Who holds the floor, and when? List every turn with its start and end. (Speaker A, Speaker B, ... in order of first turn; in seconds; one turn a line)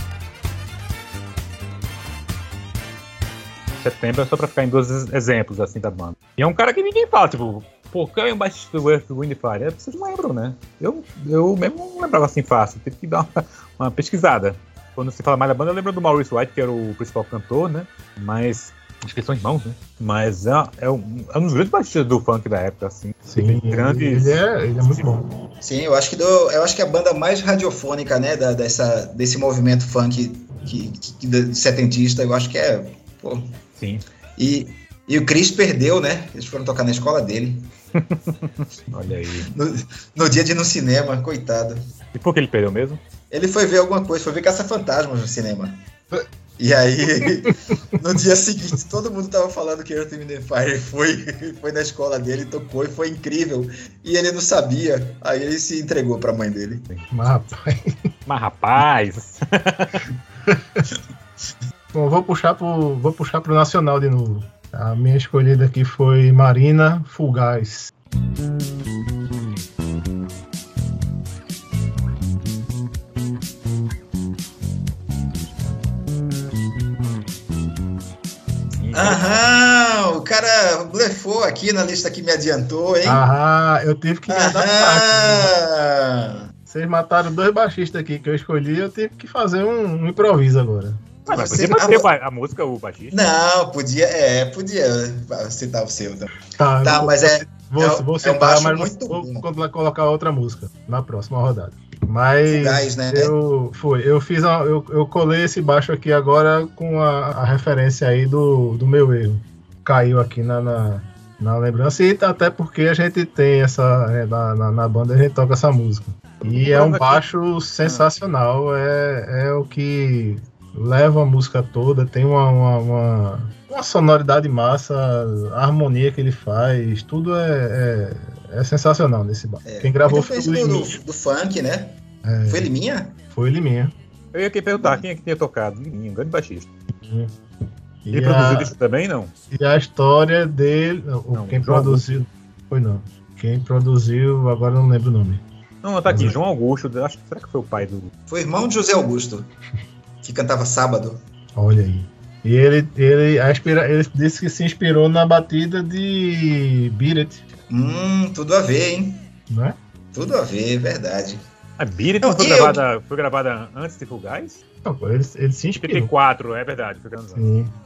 Speaker A: 3.8-24.4
Speaker B: 23.3-25.3
Speaker C: 25.6-33.5
Speaker A: 33.8-34.0
Speaker C: 34.4-37.7
Speaker A: 38.0-39.5
Speaker C: 39.5-41.8
Speaker A: 42.1-43.0
Speaker C: 43.3-45.8
Speaker C: 46.6-56.9
Speaker B: 57.1-57.9
Speaker A: 58.2-59.9
Speaker B: 60.5-60.8
Speaker B: 61.9-67.9
Speaker A: 78.8-79.5
Speaker C: 78.9-83.2
Speaker B: 83.0-85.5
Speaker C: 84.3-86.4
Speaker B: 86.7-91.0
Speaker C: 91.2-92.1
Speaker A: 91.3-93.2
Speaker C: 93.1-99.5
Speaker B: 96.5-131.0
Speaker C: 102.4-103.3
Speaker A: 116.4-117.2
Speaker A: 117.8-118.1
Speaker C: 129.6-133.2
Speaker B: 132.2-132.7
Speaker B: 133.3-133.9
Speaker A: 134.3-136.7
Speaker B: 137.0-137.3
Speaker B: 138.0-138.7
Speaker A: 138.1-139.3
Speaker B: 139.5-145.4
Speaker A: 141.3-142.2
Speaker A: 145.8-148.1
Speaker B: 146.1-146.4
Speaker C: 148.3-149.5
Speaker C: 150.2-151.2
Speaker B: 151.6-157.4
Speaker C: 157.7-159.2
Speaker B: 159.5-159.8
Speaker C: 160.1-161.4
Speaker A: 161.8-164.6
Speaker C: 162.2-162.8
Speaker B: 164.8-166.1
Speaker A: 165.8-167.5
Speaker B: 167.3-167.7